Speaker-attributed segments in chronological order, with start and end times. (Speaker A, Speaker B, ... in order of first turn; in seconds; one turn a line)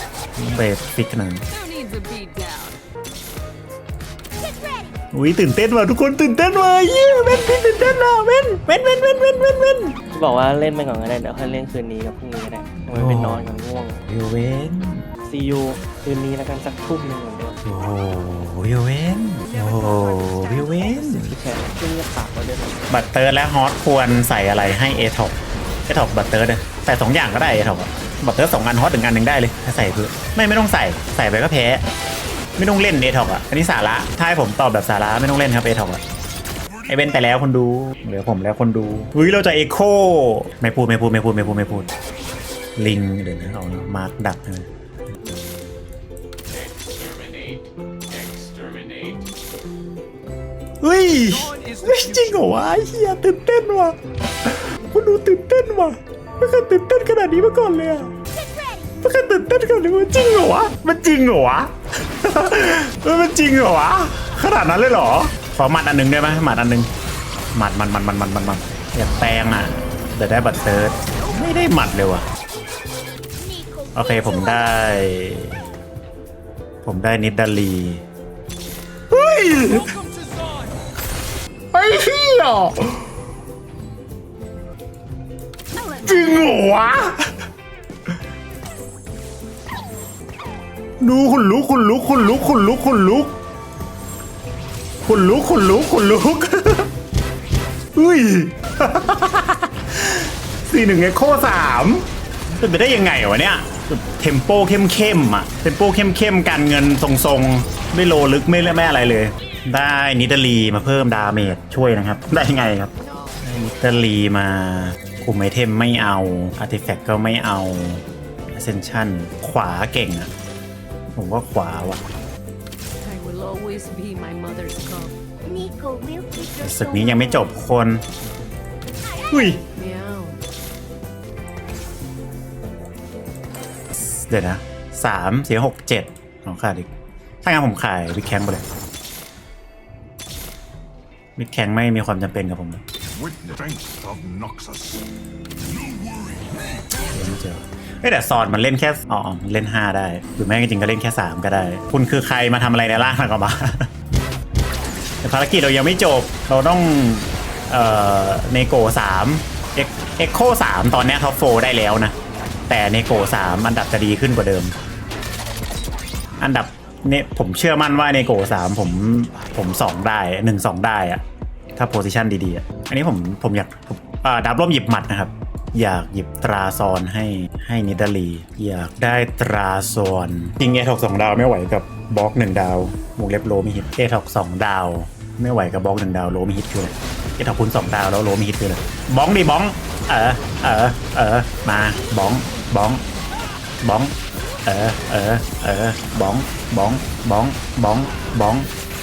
Speaker A: 0.4-1.4
Speaker B: 1.5-2.8
Speaker A: 5.1-9.9
Speaker C: 10.1-14.0
Speaker A: 12.8-13.5
Speaker A: 14.1-15.1
Speaker C: 15.2-17.6
Speaker A: 17.6-21.3
Speaker D: 19.5-20.9
Speaker C: 20.8-22.9
Speaker A: 22.9-31.8
Speaker A: 32.6-36.0
Speaker A: 36.9-41.9
Speaker A: 42.8-44.7
Speaker B: 46.5-49.2
Speaker A: 50.8-58.1
Speaker B: 51.5-51.9
Speaker A: 59.0-66.9
Speaker A: 67.5-72.2
Speaker D: 73.4-74.6
Speaker A: 73.9-75.6
Speaker A: 76.8-78.0
Speaker A: 79.1-80.0
Speaker A: 81.7-83.1
Speaker D: 85.7-86.7
Speaker A: 86.0-87.3
Speaker A: 91.0-93.3
Speaker A: 95.0-96.9
Speaker A: 97.9-120.3
Speaker A: 121.2-122.0
Speaker B: 123.0-125.2
Speaker D: 125.4-127.6
Speaker A: 126.6-128.1
Speaker D: 129.2-129.4
Speaker A: 129.3-129.6
Speaker B: 129.7-130.4
Speaker A: 133.9-136.9
Speaker A: 137.4-138.6
Speaker A: 141.4-142.8
Speaker E: 143.2-145.1
Speaker E: 145.7-146.8
Speaker A: 147.0-153.9
Speaker A: 155.2-162.2
Speaker A: 162.7-164.8
Speaker A: 166.4-171.2
Speaker A: 171.7-193.1
Speaker A: 193.8-198.7